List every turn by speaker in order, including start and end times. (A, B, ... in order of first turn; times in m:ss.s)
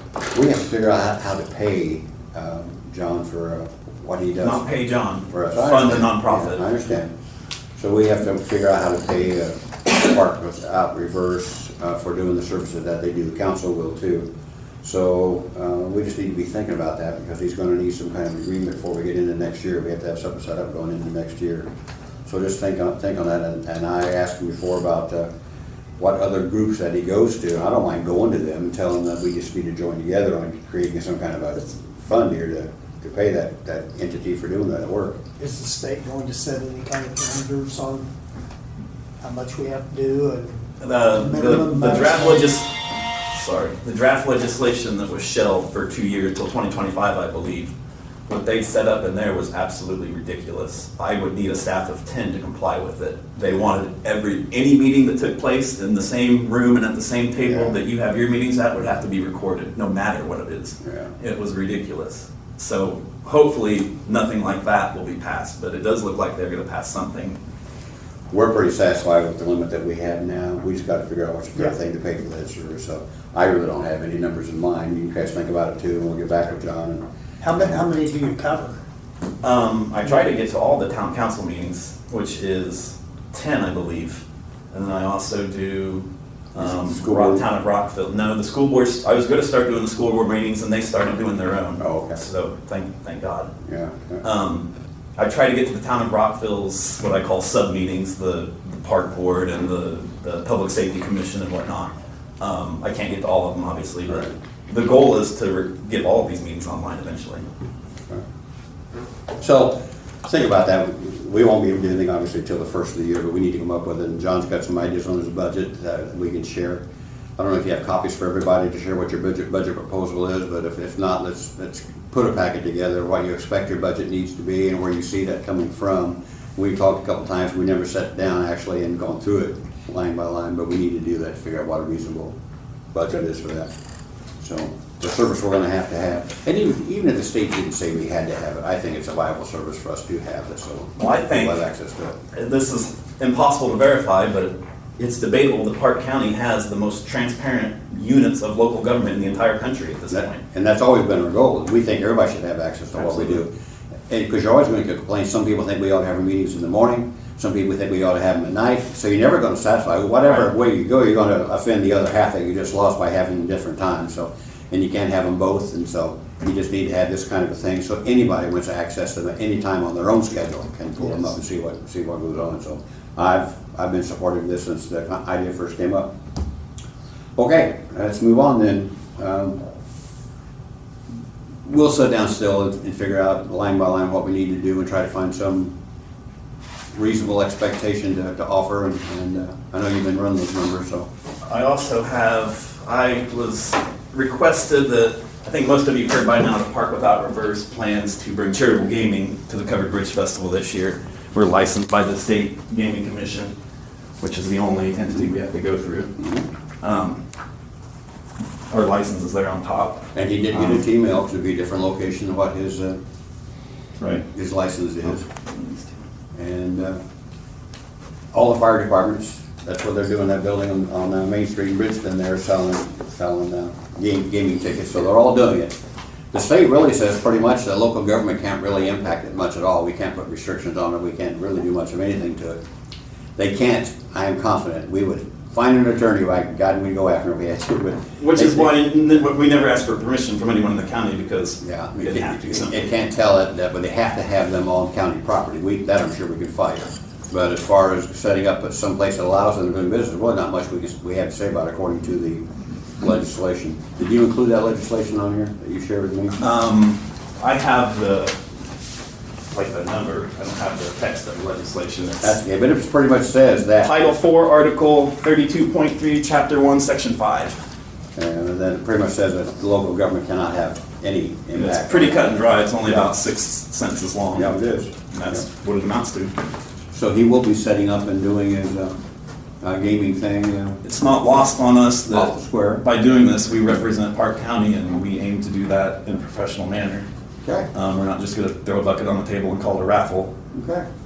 0:00.3-0:04.6 A
0:04.4-0:06.6 B
0:05.3-0:07.1 A
0:07.8-0:14.3 A
0:14.8-0:21.7 A
0:22.2-0:25.3 A
0:26.0-0:35.2 A
0:35.4-0:38.1 C
0:39.2-0:42.4 C
0:40.8-0:42.7 B
0:43.3-0:47.7 B
0:48.3-1:07.4 B
0:57.4-0:57.7 A
1:00.8-1:01.1 A
1:08.3-1:17.9 A
1:17.4-1:18.8 C
1:19.4-1:33.5 B
1:26.6-1:27.4 A
1:31.8-1:32.2 A
1:33.6-1:34.2 A
1:34.2-1:47.4 B
1:44.1-1:44.3 A
1:49.4-1:56.8 A
1:57.4-2:12.3 A
2:12.9-2:13.7 A
2:14.4-2:22.2 A
2:21.0-2:21.6 B
2:22.3-2:30.4 B
2:30.1-2:33.5 A
2:33.0-2:33.4 B
2:34.1-2:56.1 A
2:57.4-2:59.6 A
3:01.6-3:05.7 A
3:06.9-3:11.1 A
3:11.4-3:23.5 B
3:24.2-3:26.1 B
3:26.8-3:27.2 B
3:28.7-3:30.0 B
3:30.1-3:33.0 A
3:34.3-3:35.2 A
3:35.5-3:35.9 B
3:36.3-3:37.0 A
3:38.3-3:45.8 A
3:46.3-3:52.6 A
3:53.4-3:58.7 A
3:58.2-4:02.8 B
4:01.6-4:12.4 A
4:13.0-4:16.4 A
4:16.4-4:18.4 B
4:19.5-4:22.4 B
4:22.2-4:24.0 A
4:23.8-4:27.6 B
4:28.2-4:33.1 A
4:31.5-4:34.5 B
4:34.3-4:35.4 A
4:35.1-4:36.3 B
4:36.9-4:38.9 A
4:39.6-4:40.8 A
4:40.8-4:47.0 B
4:42.1-4:42.8 A
4:47.7-4:50.3 B
4:50.5-4:50.9 A